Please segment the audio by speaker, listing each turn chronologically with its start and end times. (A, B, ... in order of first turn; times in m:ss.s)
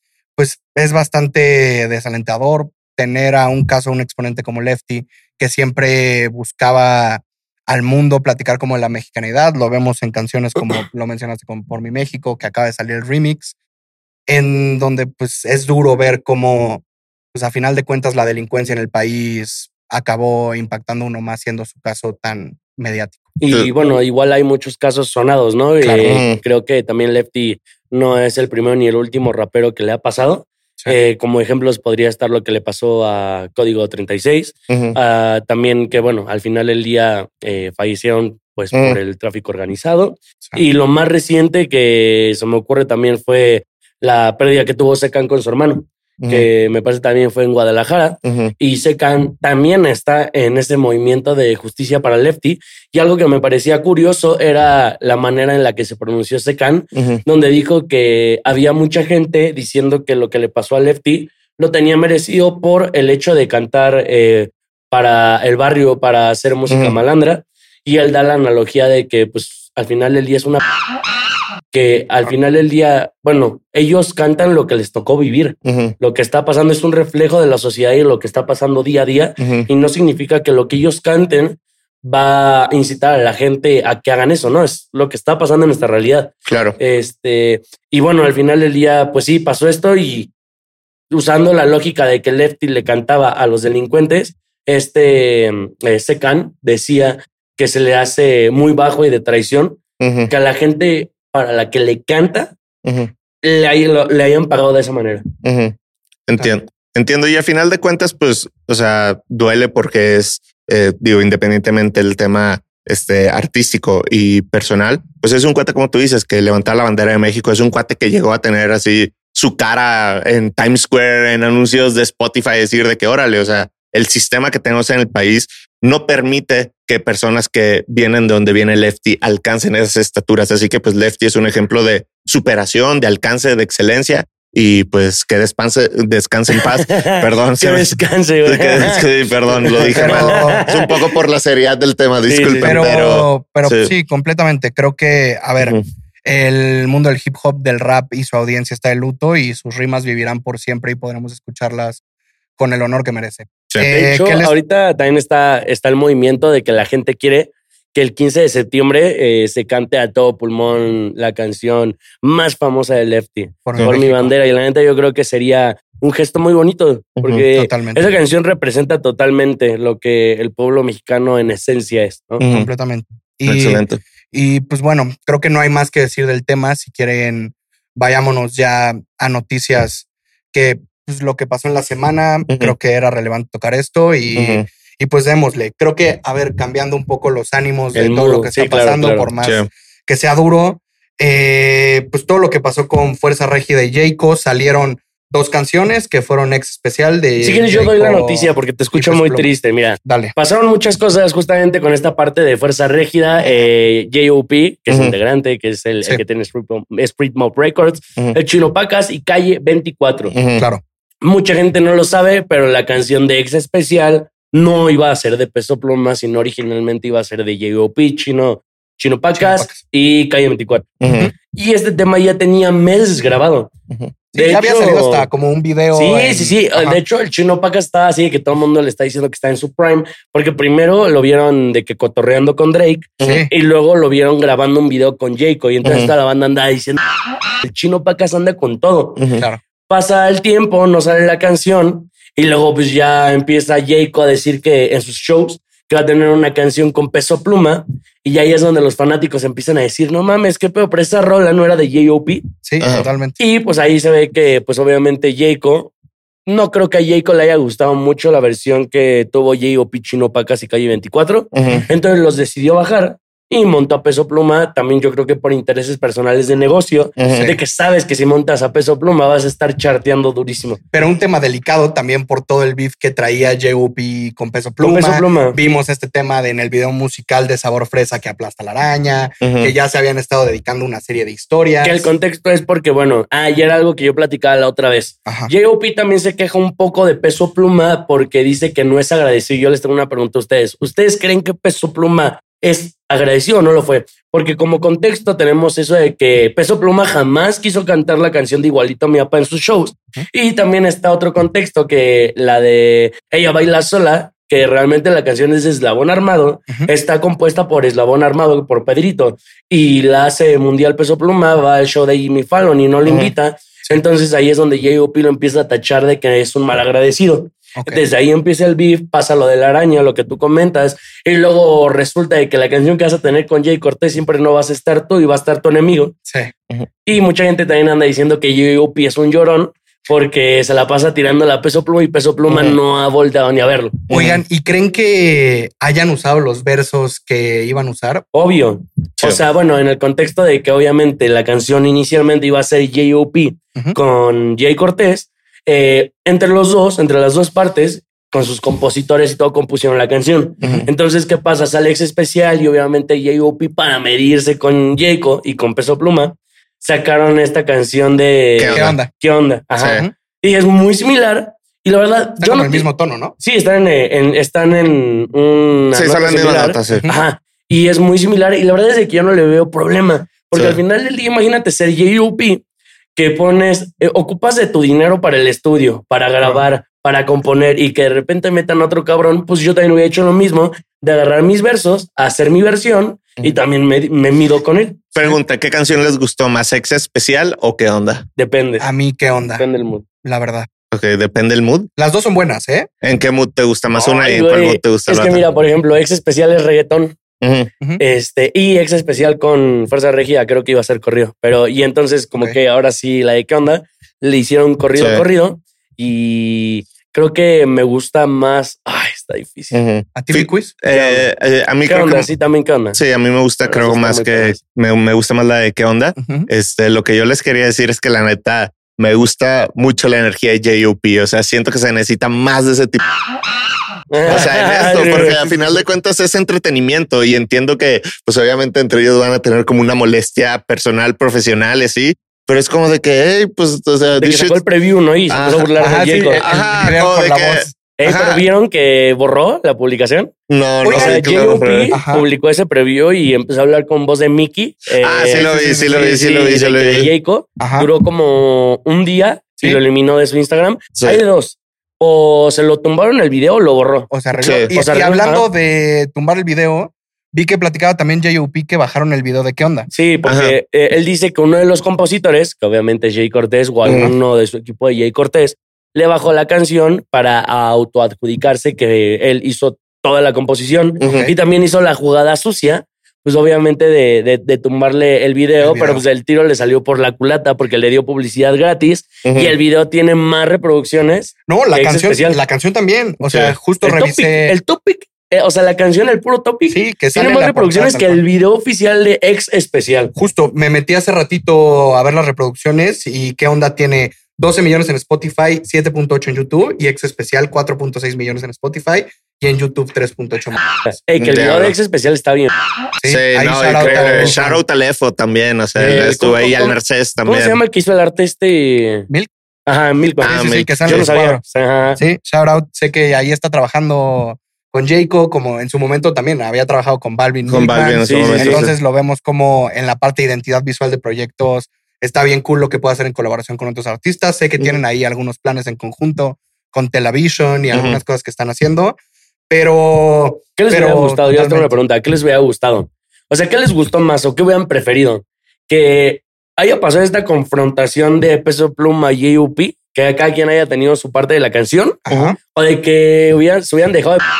0:00.4-0:13.6 A
0:14.3-0:23.4 A
0:23.4-1:10.6 B
0:25.8-0:26.2 A
0:26.0-0:26.4 C
0:34.7-0:35.0 C
0:38.7-0:39.0 C
0:46.2-0:46.5 C
0:48.2-0:48.5 C
0:57.0-0:57.2 C
1:06.7-1:07.0 C
1:11.7-1:30.3 B
1:15.7-1:16.0 C
1:19.4-1:19.7 C
1:26.5-1:26.8 C
1:31.1-1:42.5 B
1:40.0-1:40.3 C
1:42.8-1:43.1 C
1:43.4-1:45.3 B
1:45.4-1:45.8 C
1:46.3-2:23.9 C
2:16.5-2:21.2 B
2:19.8-2:20.7 A
2:22.3-2:22.8 B
2:22.6-2:32.0 A
2:32.6-2:34.6 A
2:33.8-2:52.4 B
2:43.7-2:44.3 A
2:47.5-2:48.1 A
2:52.4-2:52.7 C
2:52.4-3:19.5 A
2:53.5-2:54.0 C
3:02.5-3:02.7 C
3:04.4-3:04.7 C
3:07.9-3:09.3 B
3:09.4-3:09.7 C
3:17.4-3:30.3 B
3:20.0-3:20.3 A
3:24.9-3:25.1 C
3:30.3-3:30.7 C
3:30.6-3:30.8 A
3:31.2-3:40.9 B
3:39.4-3:39.8 A
3:41.0-3:41.3 C
3:41.0-3:41.3 A
3:41.5-3:43.7 B
3:44.3-3:47.0 A
3:44.4-3:45.3 B
3:45.9-3:57.0 B
3:53.2-3:53.5 C
3:53.2-3:53.5 A
3:55.8-3:56.1 C
3:57.6-3:59.3 B
3:59.2-3:59.4 C
3:59.9-4:12.5 B
4:12.6-4:13.4 A
4:12.8-4:13.1 C
4:13.4-4:15.9 B
4:16.5-4:30.8 B
4:21.5-4:21.8 C
4:27.2-4:27.5 C
4:27.3-4:27.6 A
4:30.9-4:42.1 A
4:34.8-4:35.6 B
4:39.4-4:39.7 C
4:41.8-5:26.2 B
4:45.3-4:45.5 A
5:13.1-5:13.3 C
5:17.8-5:18.0 A
5:27.0-5:34.0 B
5:32.5-5:32.8 C
5:34.1-5:34.4 C
5:34.1-5:38.2 A
5:38.3-6:02.9 B
5:50.6-5:50.9 C
5:58.6-5:59.0 C
5:58.7-5:59.1 A
5:59.8-6:00.0 C
6:02.4-6:03.3 A
6:03.4-6:12.6 B
6:06.0-6:07.1 C
6:06.9-6:07.2 A
6:10.5-6:10.8 C
6:13.2-6:25.1 B
6:25.2-6:28.3 C
6:28.4-6:28.9 B
6:28.8-6:29.6 A
6:29.6-6:30.0 B
6:30.2-6:30.7 A
6:30.9-6:31.9 C
6:32.0-6:32.9 A
6:33.0-6:35.4 C
6:33.9-6:37.2 B
6:37.4-6:37.7 C
6:38.0-6:49.8 B
6:45.0-6:45.2 C
6:49.7-6:52.3 C
6:50.2-6:50.7 A
6:50.9-6:51.3 B
6:51.9-6:53.0 B
6:52.9-7:03.1 C
6:53.7-6:54.6 B
6:56.2-6:56.5 A
7:04.1-7:05.4 B
7:04.3-7:14.6 C
7:05.0-7:05.8 A
7:14.2-7:16.5 B
7:15.3-7:15.7 C
7:15.8-7:17.8 A
7:16.3-7:18.4 C
7:18.0-7:20.3 B
7:20.5-7:22.0 C
7:20.8-7:22.3 A
7:20.9-7:35.5 B
7:25.0-7:27.1 C
7:25.3-7:26.1 A
7:27.6-7:27.9 A
7:31.0-7:31.2 C
7:34.1-7:39.9 A
7:34.4-7:34.7 C
7:39.9-8:02.4 B
7:40.2-7:40.6 C
7:43.9-7:44.1 C
7:51.0-7:51.3 C
7:51.0-7:51.3 A
7:55.6-7:56.0 A
7:59.2-7:59.6 C
8:01.5-8:04.6 A
8:03.2-8:03.6 C
8:03.8-8:10.1 B
8:06.7-8:08.2 A
8:10.2-8:20.7 A
8:20.9-8:22.5 B
8:21.2-8:21.8 C
8:23.0-8:24.6 A
8:23.1-8:27.6 C
8:23.8-8:24.4 B
8:25.8-8:29.1 B
8:29.7-8:32.0 B
8:30.2-8:31.4 A
8:30.2-8:31.2 C
8:32.0-8:49.0 A
8:37.5-8:38.7 C
8:38.0-8:38.6 B
8:47.7-8:48.0 C
8:49.5-8:51.8 A
8:50.6-9:04.2 B
9:02.1-9:02.4 A